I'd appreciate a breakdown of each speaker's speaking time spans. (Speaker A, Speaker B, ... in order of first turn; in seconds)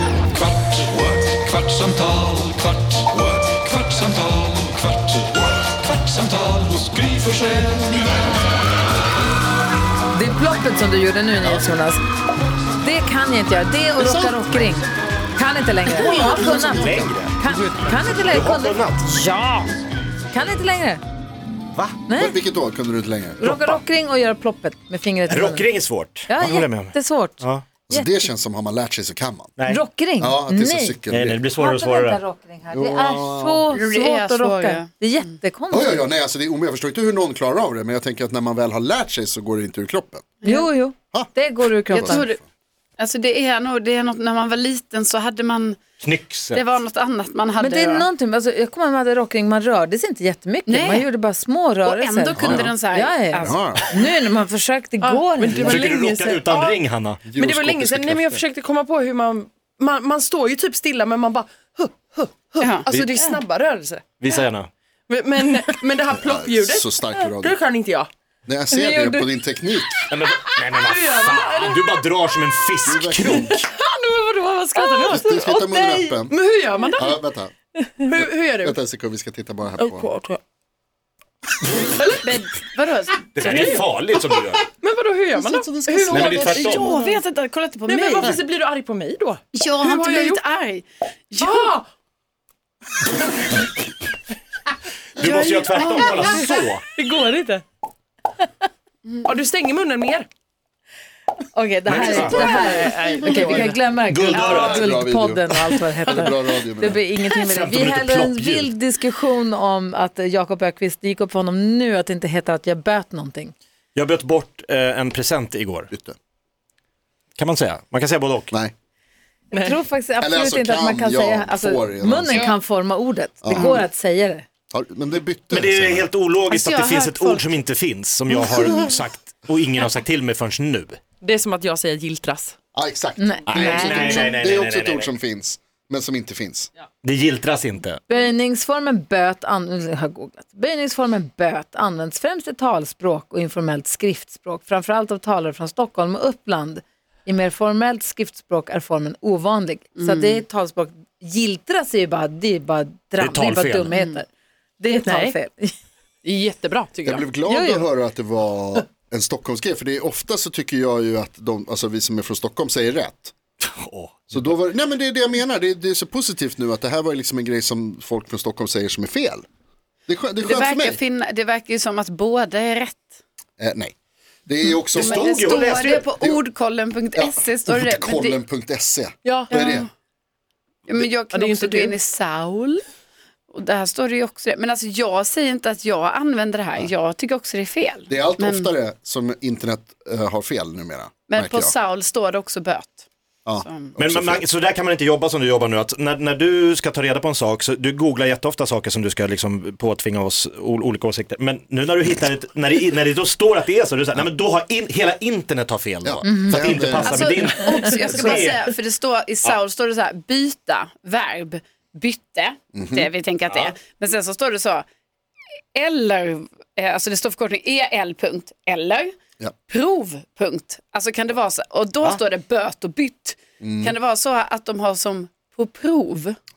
Speaker A: 0.3-5.2, 5.7-8.0
Speaker B: 10.1-12.0, 12.8-19.7, 20.3-21.0, 22.1-22.4, 23.4-25.6, 26.3-28.3, 29.7-31.0, 31.6-36.0, 40.4-42.2, 47.6-55.7, 101.5-113.5, 119.5-124.5, 133.2-134.3, 138.1-154.3, 154.8-155.7, 157.4-157.8, 206.2-206.6
Speaker C: 14.0-14.6, 15.8-18.3, 22.1-23.4, 27.9-29.5, 30.2-31.4, 32.7-33.7, 35.7-40.4, 41.9-42.4, 52.4-52.7, 53.4-53.9, 57.2-57.8, 66.1-67.6, 68.5-70.0, 72.8-73.7, 75.0-76.4, 76.9-77.5, 78.1-80.1, 85.6-86.4, 104.4-107.0, 120.2-122.5, 123.4-123.8, 124.7-126.1, 132.7-136.7, 157.0-163.3, 164.3-169.4, 170.1-171.0, 173.6-173.9, 174.5-176.4, 177.1-179.9, 188.1-191.7, 193.4-194.4, 206.0-207.2, 212.7-213.1, 223.6-223.9
Speaker D: 16.1-17.4, 18.1-19.0, 21.7-22.0, 23.4-23.8, 25.3-27.6, 29.6-29.8, 31.1-32.2, 46.0-46.6, 55.5-58.4, 62.9-63.3, 64.2-64.7, 70.1-73.5, 83.3-84.7, 86.1-87.0, 95.2-96.8, 101.8-102.5, 104.1-104.9, 107.4-108.7, 113.9-115.9, 117.4-118.5, 125.5-131.0, 133.5-135.1, 137.0-138.0, 153.2-153.9, 163.6-164.6, 174.9-176.1, 194.0-208.7
Speaker E: 33.7-34.9, 41.9-42.4, 43.0-45.8, 46.5-48.1, 50.7-51.1, 51.8-53.6, 62.6-62.9, 82.0-83.8, 85.3-88.4, 89.5-91.7, 126.5-127.5, 150.0-150.4, 170.4-173.1, 175.0-178.4, 179.5-179.9, 180.9-182.8, 183.5-188.7, 191.3-193.1, 193.6-193.9, 207.0-214.8, 215.7-219.1, 219.7-226.4
Speaker F: 55.0-64.1, 65.1-68.1, 70.5-72.0, 73.4-75.7, 76.3-77.2, 78.0-78.8, 79.8-80.4, 82.0-82.6, 83.3-83.8, 84.8-87.3, 87.8-90.4, 91.4-91.8, 95.2-97.6, 99.2-100.3, 101.9-103.8, 119.5-119.8, 131.2-132.6, 155.0-155.3, 156.2-157.2, 179.2-179.5, 181.3-182.0